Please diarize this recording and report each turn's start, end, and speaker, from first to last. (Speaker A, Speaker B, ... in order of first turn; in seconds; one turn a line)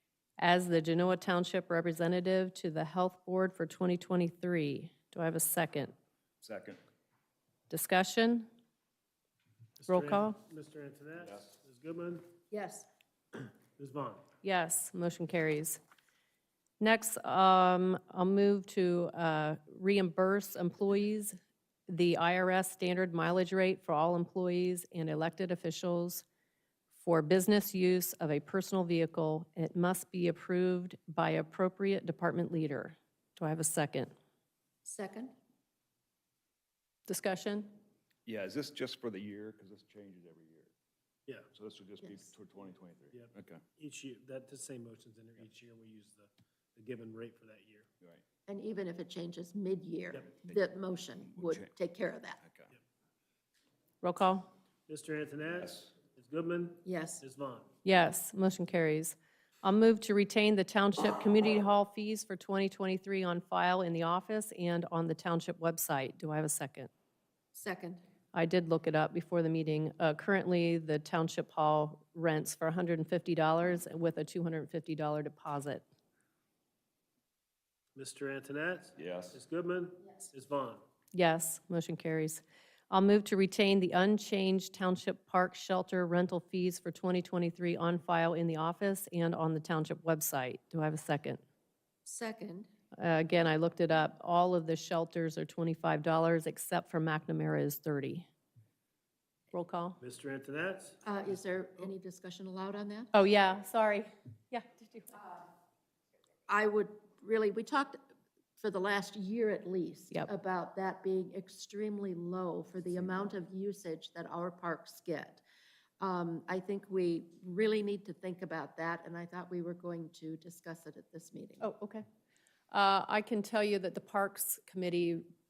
Speaker A: 0.4-5.9
Speaker B: 6.4-6.8
Speaker A: 7.7-8.5
Speaker C: 9.8-12.3
Speaker A: 9.9-10.4
Speaker B: 11.2-11.5
Speaker D: 12.5-12.9
Speaker C: 13.8-14.2
Speaker A: 14.4-15.8
Speaker A: 16.8-21.4
Speaker A: 21.9-26.2
Speaker A: 27.0-34.1
Speaker D: 34.9-35.3
Speaker A: 37.1-37.7
Speaker B: 38.3-40.7
Speaker B: 41.5-43.6
Speaker D: 42.0-42.3
Speaker C: 43.1-47.9
Speaker D: 48.5-52.4
Speaker B: 51.4-51.7
Speaker B: 52.4-52.7
Speaker A: 54.0-54.5
Speaker C: 54.9-57.7
Speaker D: 56.9-57.2
Speaker A: 57.9-66.9
Speaker D: 67.5-68.0
Speaker A: 68.3-75.8
Speaker C: 78.0-80.8
Speaker B: 79.0-79.4
Speaker A: 81.1-91.4
Speaker D: 92.1-92.7
Speaker A: 92.9-98.3
Speaker A: 99.5-100.0
Speaker C: 100.0-101.0
Speaker D: 101.0-103.1
Speaker A: 103.1-105.2
Speaker D: 106.5-108.0
Speaker D: 108.6-115.4
Speaker D: 116.0-121.7
Speaker A: 121.6-122.0
Speaker A: 122.7-125.2